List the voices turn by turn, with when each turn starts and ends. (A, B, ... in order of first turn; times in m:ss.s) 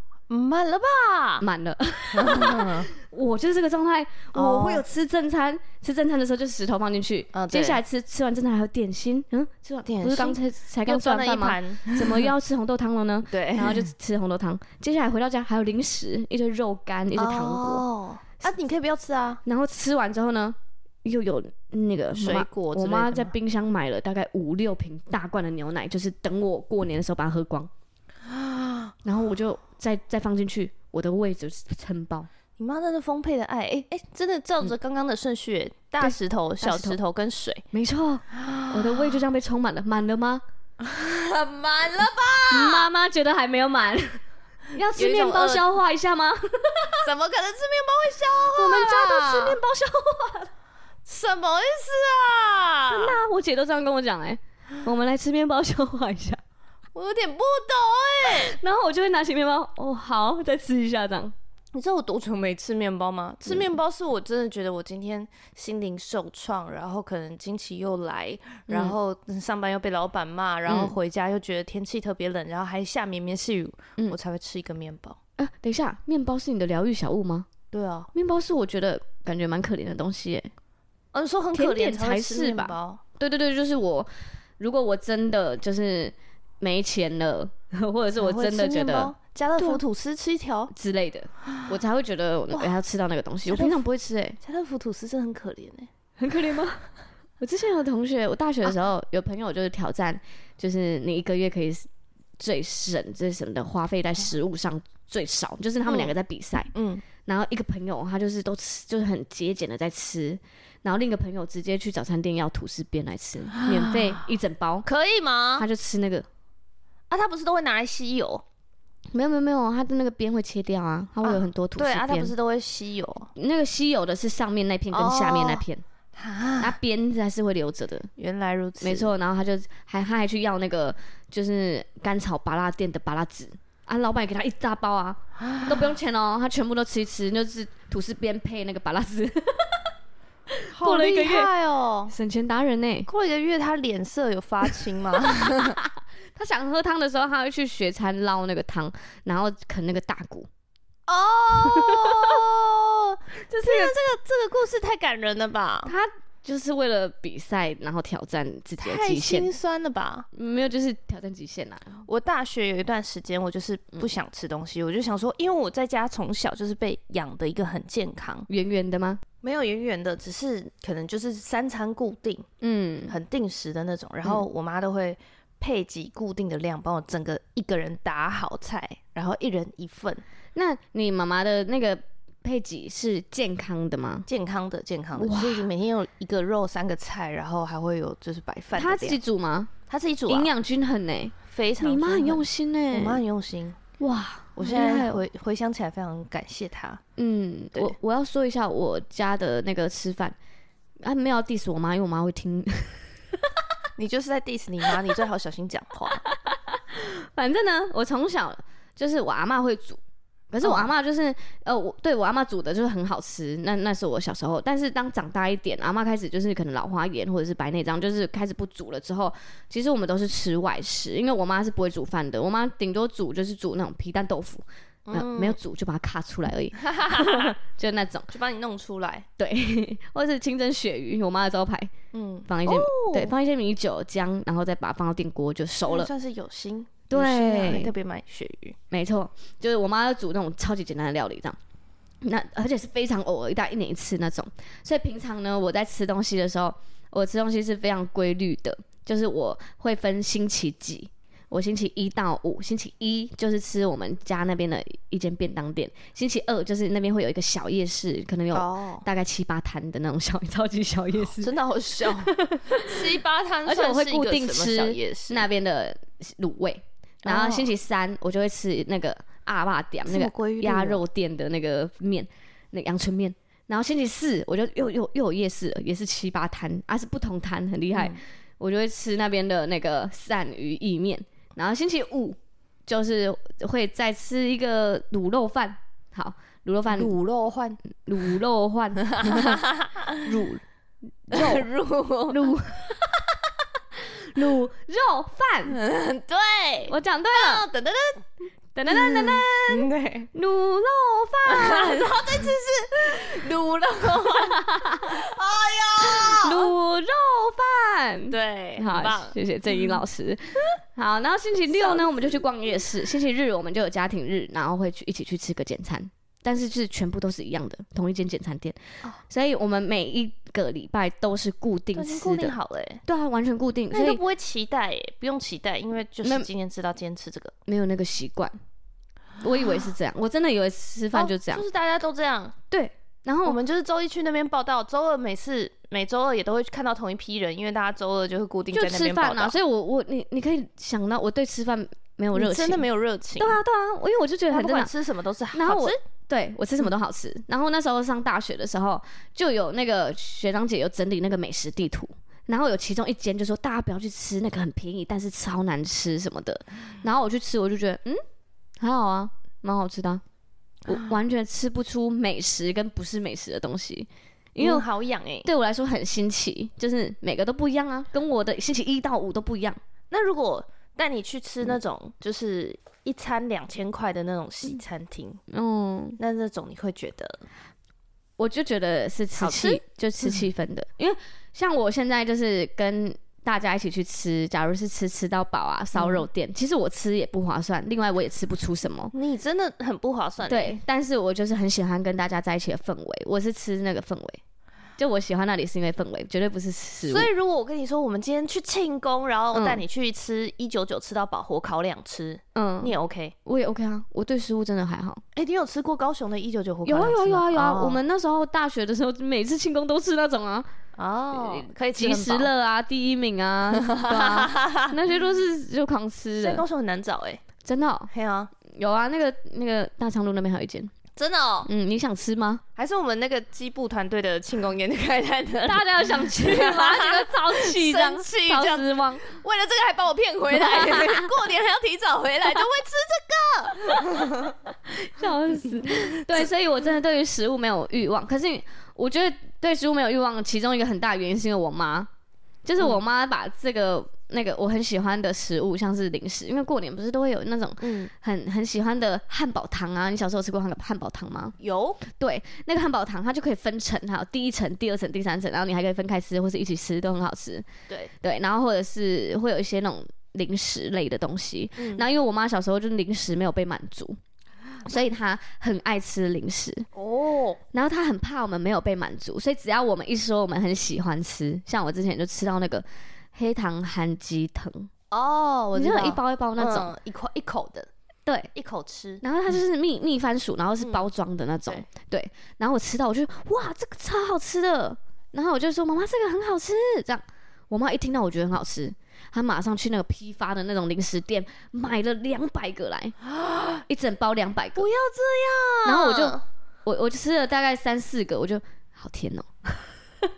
0:00.3-0:01.4 A
0:01.4-0:17.8 B
0:02.1-0:02.9 A
0:04.3-0:04.8 A
0:07.3-0:07.8 A
0:09.8-0:12.3 A
0:13.3-0:13.9 A
0:17.1-0:19.4 A
0:19.4-0:27.7 B
0:22.1-0:23.3 A
0:28.2-0:28.9 A
0:29.0-0:32.3 B
0:32.6-0:37.6 A
0:36.0-0:37.0 B
0:37.7-0:40.4 B
0:38.3-0:39.1 A
0:40.8-0:42.9 A
0:42.5-0:44.2 B
0:44.7-0:47.0 B
0:44.9-0:45.7 A
0:47.0-0:49.6 A
0:48.5-0:50.5 B
0:51.0-0:53.2 A
0:52.9-0:56.4 B
0:56.9-0:58.6 A
0:58.2-1:01.3 B
1:01.7-1:15.2 A
1:08.7-1:09.0 B
1:10.7-1:10.9 B
1:15.4-1:17.5 B
1:17.7-1:18.1 A
1:18.1-1:20.5 B
1:21.1-1:23.0 A
1:21.5-1:29.8 B
1:28.1-1:30.7 A
1:30.7-1:34.4 B
1:32.5-1:32.8 A
1:33.5-1:33.8 A
1:34.4-1:35.9 A
1:36.2-1:36.8 B
1:37.4-1:41.9 B
1:42.4-1:46.7 B
1:45.8-1:46.1 A
1:46.7-1:47.0 A
1:47.2-1:54.8 B
1:53.5-1:54.2 A
1:54.8-1:55.7 A
1:55.6-1:56.2 B
1:57.1-1:58.4 A
1:59.1-2:02.3 B
2:01.2-2:03.3 A
2:03.4-2:05.8 B
2:04.9-2:05.6 A
2:06.2-2:06.8 A
2:06.6-2:08.1 B
2:08.2-2:09.1 A
2:08.8-2:19.9 B
2:15.4-2:15.8 A
2:20.5-2:21.5 B
2:20.7-2:22.1 A
2:22.1-2:23.1 B
2:23.0-2:25.8 A
2:25.2-2:30.5 B
2:31.1-2:35.9 A
2:31.6-2:32.4 B
2:33.5-2:34.0 B
2:35.8-2:39.5 B
2:38.8-2:40.3 A
2:40.3-2:42.0 B
2:42.1-2:48.5 A
2:48.5-2:49.2 B
2:49.4-2:52.5 A
2:52.6-2:53.1 B
2:53.1-3:00.2 A
3:00.5-3:04.3 B
3:04.3-3:09.2 A
3:05.2-3:05.7 B
3:08.7-3:09.7 B
3:09.9-3:10.5 A
3:10.3-3:13.2 B
3:11.5-3:13.8 A
3:14.0-3:15.2 B
3:14.6-3:17.0 A
3:17.2-3:20.4 B
3:21.0-3:23.1 B
3:24.0-3:26.2 A
3:26.3-3:48.3 B
3:30.6-3:30.9 A
3:45.1-3:45.6 A
3:46.8-3:47.5 A
3:48.3-3:49.3 A
3:49.4-3:51.9 B
3:52.1-3:53.3 A
3:52.5-3:56.1 B
3:55.8-3:58.8 A
3:57.1-3:57.9 B
3:58.9-4:01.6 B
4:02.2-4:21.5 B
4:18.5-4:19.1 A
4:21.4-4:25.5 A
4:22.1-4:23.1 B
4:23.6-4:47.1 B
4:27.2-4:27.7 A
4:30.0-4:31.0 A
4:37.9-4:38.2 A
4:46.9-4:47.8 A
4:47.9-4:49.6 B
4:49.1-4:50.2 A
4:50.2-4:50.6 B
4:51.2-4:51.7 B
4:51.3-4:52.5 A
4:52.3-4:53.1 B
4:53.9-4:55.8 B
4:55.7-4:58.2 A
4:56.9-4:57.7 B
4:58.7-5:02.5 B
4:58.9-5:00.3 A
5:01.4-5:06.7 A
5:04.2-5:05.2 B
5:06.0-5:24.2 B
5:08.3-5:09.9 A
5:11.7-5:12.4 A
5:21.9-5:23.0 A
5:23.9-5:27.5 A
5:26.2-5:26.5 B
5:27.6-5:28.6 B
5:29.4-5:31.6 B
5:31.1-5:32.6 A
5:32.7-5:33.6 B
5:33.4-5:39.5 A
5:38.7-5:42.8 B
5:42.3-5:43.6 A
5:43.4-5:44.9 B
5:44.5-5:46.0 A
5:45.5-5:58.2 B
5:58.8-6:00.2 B
6:00.9-6:04.8 B
6:04.6-6:05.5 A
6:05.4-6:09.8 B
6:10.1-6:15.4 A
6:15.5-6:16.2 B
6:16.2-6:17.4 A
6:18.4-6:29.1 B
6:19.4-6:19.8 A
6:25.9-6:26.2 A
6:29.1-6:30.8 A
6:30.4-6:34.4 B
6:35.0-6:37.3 B
6:37.0-6:43.3 A
6:39.5-6:39.8 B
6:42.5-6:42.9 B
6:43.4-6:45.2 B
6:45.3-6:48.0 A
6:46.8-6:50.7 B
6:51.0-6:52.5 A
6:51.3-6:56.6 B
6:53.7-6:55.0 A
6:56.4-6:57.4 A
6:57.6-6:58.1 B
6:58.1-6:58.5 A
6:58.6-7:00.9 B
7:01.2-7:01.7 A
7:01.6-7:02.6 B
7:02.8-7:14.5 A
7:05.6-7:09.2 B
7:10.5-7:11.3 B
7:14.9-7:22.1 B
7:16.1-7:16.4 A
7:22.6-7:31.5 B
7:27.8-7:28.1 A
7:31.6-7:32.0 A
7:32.1-7:37.6 B
7:38.2-7:44.2 B
7:41.8-7:42.0 A
7:44.8-7:46.9 B
7:46.9-7:47.6 A
7:47.7-7:54.9 B
7:55.1-7:57.9 A
7:55.7-7:56.9 B
7:58.5-7:59.2 A
7:59.2-8:13.2 B
8:00.8-8:01.0 A
8:13.3-8:13.8 A
8:13.8-8:14.8 B
8:14.8-8:16.4 A
8:15.8-8:19.9 B